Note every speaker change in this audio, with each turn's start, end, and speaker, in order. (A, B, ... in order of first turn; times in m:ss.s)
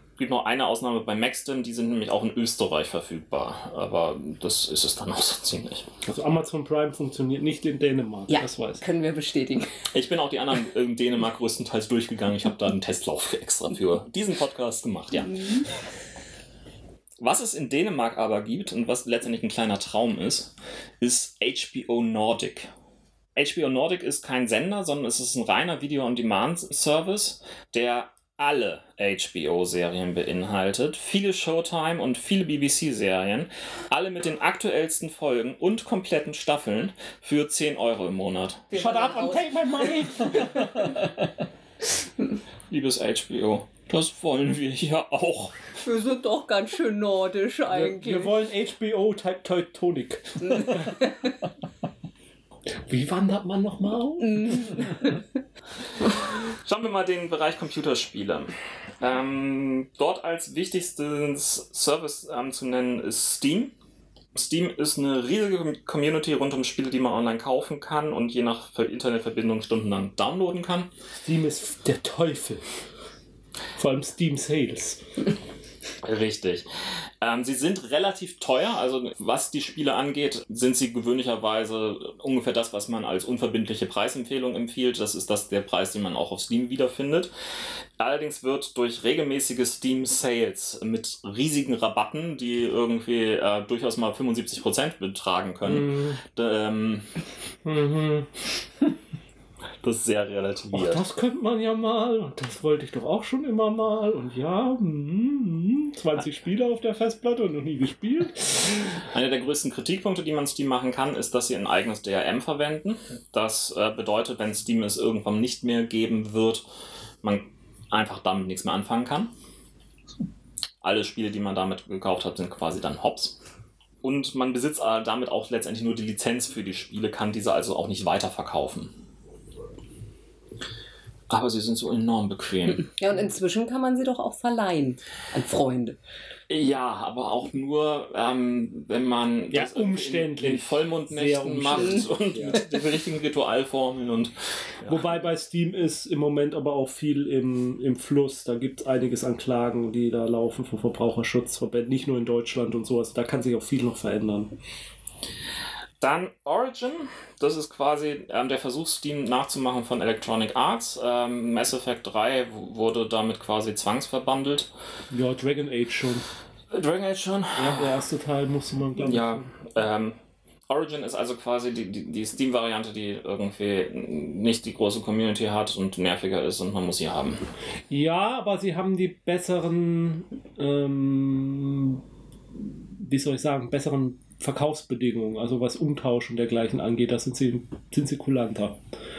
0:00.2-0:05.9 A
0:06.0-0:08.8 B
0:08.3-0:09.9 C
0:09.9-0:15.6 A
0:15.3-0:15.7 C
0:17.2-0:22.7 A
0:23.4-0:38.7 A
0:38.7-0:40.8 C
0:38.7-0:40.9 B
0:42.7-0:45.6 A
0:45.8-0:48.4 C
0:47.7-0:51.0 B
0:50.5-0:51.3 C
0:52.9-0:55.0 B
0:54.2-0:55.2 C
0:56.0-1:03.8 A
1:04.4-1:10.9 A
1:11.2-1:12.6 B
1:13.8-1:15.0 B
1:16.0-1:16.7 A
1:17.2-1:27.3 A
1:28.0-1:37.2 A
1:35.6-1:36.2 B
1:37.6-1:38.3 B
1:39.8-1:41.0 A
1:40.7-1:49.0 B
1:48.9-1:56.7 A
1:57.2-1:59.3 A
2:00.8-2:03.4 A
2:04.0-2:09.0 A
2:11.3-2:12.9 A
2:12.8-2:16.0 C
2:16.5-2:25.1 A
2:19.5-2:22.6 B
2:24.8-2:34.5 B
2:36.0-2:44.7 A
2:45.1-2:46.3 B
2:46.7-2:48.0 A
2:47.6-2:49.5 B
2:49.0-2:57.4 A
2:57.9-3:02.0 B
3:03.0-3:08.8 B